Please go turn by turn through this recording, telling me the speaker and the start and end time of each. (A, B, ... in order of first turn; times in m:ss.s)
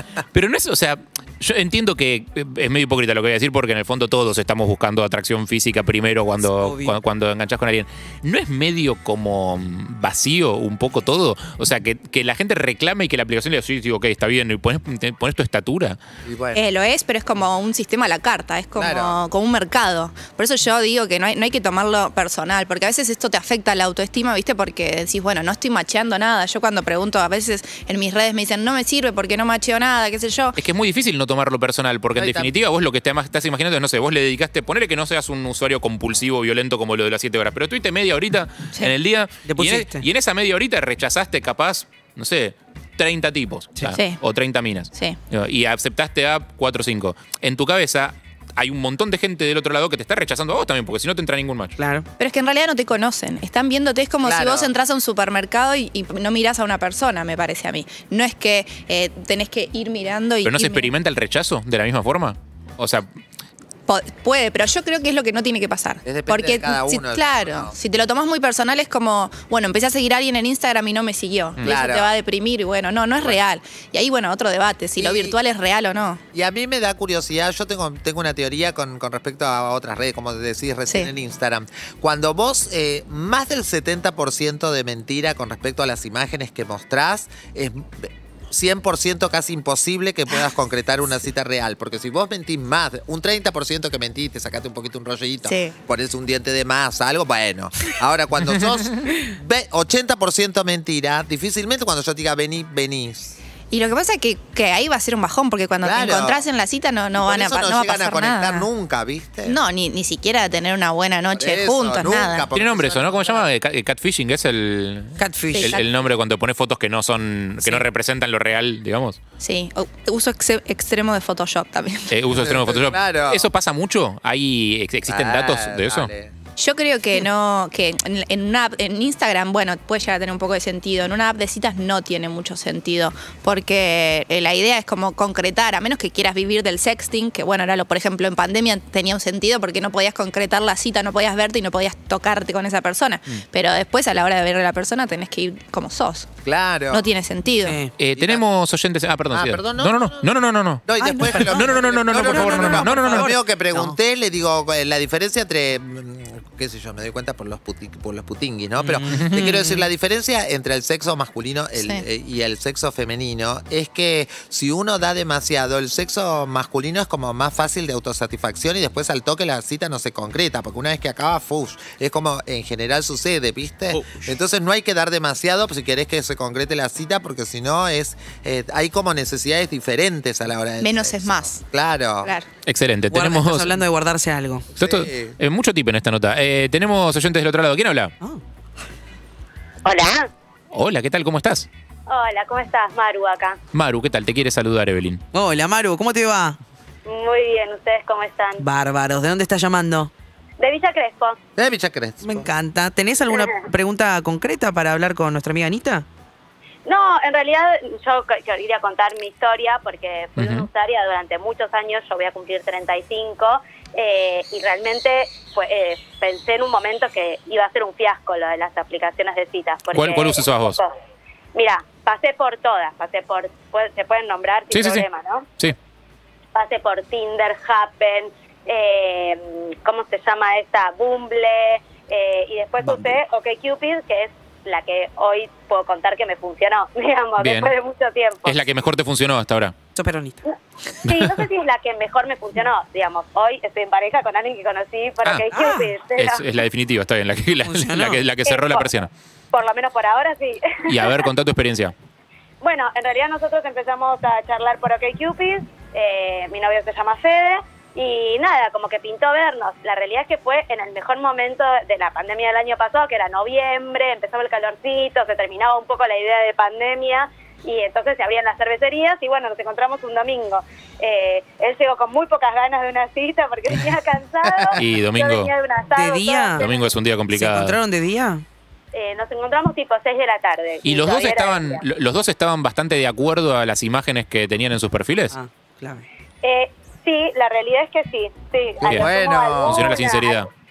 0:00.3-0:16.0 A
0:06.4-0:07.0 B
0:16.2-0:16.6 C
0:16.5-0:30.6 D
0:18.8-0:19.2 C
0:30.6-0:51.8 A
0:32.2-0:32.5 C
0:39.4-0:40.0 B
0:43.9-0:44.2 D
0:44.9-0:45.2 D
0:51.8-0:52.0 B
0:52.2-1:00.9 D
0:54.2-0:54.7 C
1:00.4-1:03.1 A
1:03.9-1:16.2 D
1:06.0-1:07.7 C
1:11.6-1:12.1 C
1:15.0-1:15.4 C
1:16.3-1:43.4 C
1:20.9-1:21.1 D
1:35.4-1:35.8 D
1:43.7-1:48.7 D
1:45.8-1:46.4 C
1:47.2-1:49.6 C
1:49.4-1:52.5 D
1:51.3-1:53.4 C
1:52.5-1:59.2 A
1:55.2-1:55.8 B
1:55.5-1:55.9 D
1:59.4-2:02.1 D
2:02.1-2:06.1 A
2:02.4-2:03.4 C
2:05.1-2:06.3 C
2:06.6-2:26.3 D
2:26.4-2:27.0 C
2:26.9-2:27.8 D
2:27.6-2:27.9 B
2:28.0-2:33.3 A
2:28.2-2:28.4 C
2:29.3-2:30.3 C
2:30.8-3:02.3 C
2:31.0-2:33.9 B
2:38.8-2:39.8 B
2:41.8-2:42.0 D
2:53.9-2:54.3 B
3:00.8-3:01.6 D
3:02.2-3:02.5 D
3:02.6-3:03.8 A
3:03.1-3:04.7 B
3:04.8-3:08.1 A
3:04.8-3:05.3 C
3:09.8-3:10.3 E
3:10.7-3:11.7 A
3:12.1-3:13.6 E
3:13.7-3:15.2 A
3:15.3-3:16.6 B
3:17.0-3:18.6 E
3:18.6-3:20.1 B
3:20.6-3:21.4 E
3:21.6-3:22.5 C
3:22.2-3:26.0 B
3:26.8-3:40.9 E
3:30.4-3:30.7 A
3:39.9-3:40.8 A
3:41.5-3:45.5 E
3:44.7-3:45.1 A
3:46.5-3:58.6 E
3:57.4-3:57.7 A
3:58.4-3:59.7 A
3:59.9-4:00.5 B
4:01.0-4:06.5 E
4:01.0-4:01.4 A
4:05.5-4:05.9 B
4:06.1-4:09.1 A
4:07.6-4:08.2 B
4:08.4-4:08.9 E
4:09.5-4:11.2 E
4:10.9-4:11.9 A
4:12.6-4:36.9 E
4:34.8-4:35.5 A
4:35.9-4:36.6 B
4:36.6-4:37.8 A
4:37.3-4:38.4 B
4:38.9-4:41.8 E
4:40.8-4:45.4 A
4:45.3-4:46.0 B
4:46.4-4:50.4 E
4:48.8-4:49.9 C
4:49.6-4:50.5 A